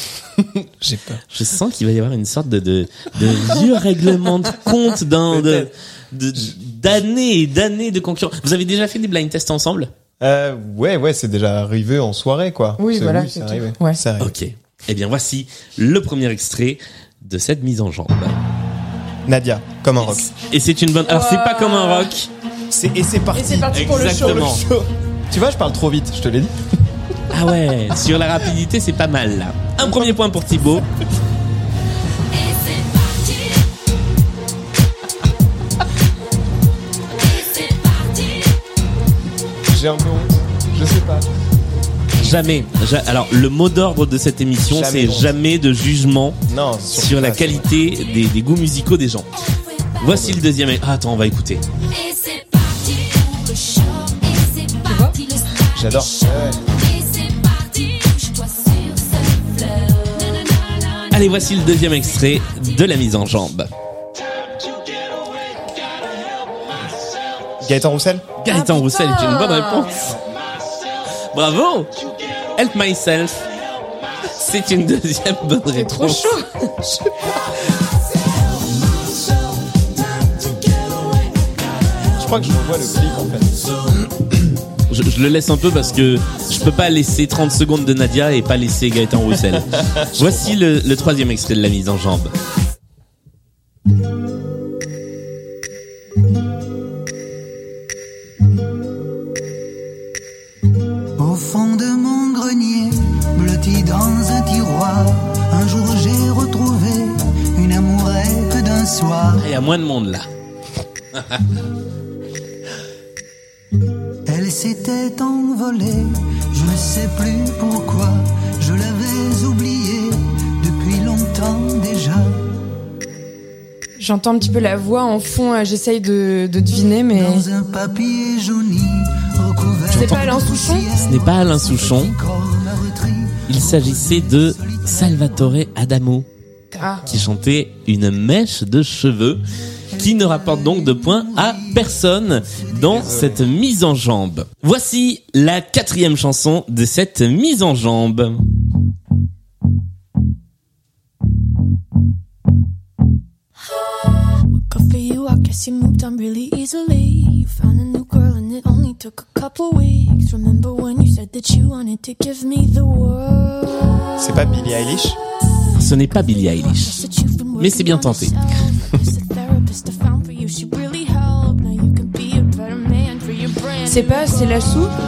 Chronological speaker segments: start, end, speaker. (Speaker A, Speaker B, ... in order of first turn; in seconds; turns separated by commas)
Speaker A: 0.4-1.2, Speaker B: 1.3-9.9, Speaker A: 5.3-5.7, Speaker A: 10.2-14.3, Speaker C: 12.8-14.0, Speaker B: 14.2-18.3, Speaker A: 19.2-20.3, Speaker B: 20.0-22.3, Speaker C: 21.1-22.1, Speaker A: 22.7-26.5, Speaker C: 23.3-24.5, Speaker B: 23.7-24.6, Speaker B: 27.3-30.8, Speaker A: 39.7-41.3, Speaker B: 42.2-46.4, Speaker A: 44.7-45.3, Speaker A: 46.5-47.7, Speaker B: 46.9-49.3, Speaker B: 50.0-51.6, Speaker A: 50.0-50.4, Speaker D: 52.0-55.4, Speaker C: 54.9-55.2, Speaker A: 55.7-56.7, Speaker D: 56.8-59.3, Speaker B: 61.1-63.7, Speaker A: 67.6-68.3, Speaker B: 68.4-70.1, Speaker C: 68.5-70.1, Speaker B: 71.3-71.9, Speaker B: 72.5-73.5, Speaker B: 74.4-76.3, Speaker C: 75.7-76.7, Speaker A: 82.2-83.7, Speaker B: 84.9-92.3, Speaker A: 89.8-90.6, Speaker E: 101.2-109.5, Speaker B: 109.4-110.3, Speaker B: 111.1-111.4, Speaker E: 114.3-122.4, Speaker C: 124.0-127.5, Speaker E: 127.1-135.4, Speaker B: 129.9-130.2, Speaker C: 129.9-130.9, Speaker B: 130.9-132.2, Speaker B: 133.5-136.3, Speaker C: 136.7-137.0, Speaker B: 137.1-139.4, Speaker B: 139.9-148.4, Speaker E: 140.0-141.9, Speaker A: 142.9-143.4, Speaker F: 154.6-164.1, Speaker A: 164.2-165.2, Speaker B: 165.7-167.0, Speaker F: 166.4-174.9, Speaker B: 167.6-168.4, Speaker C: 173.8-174.9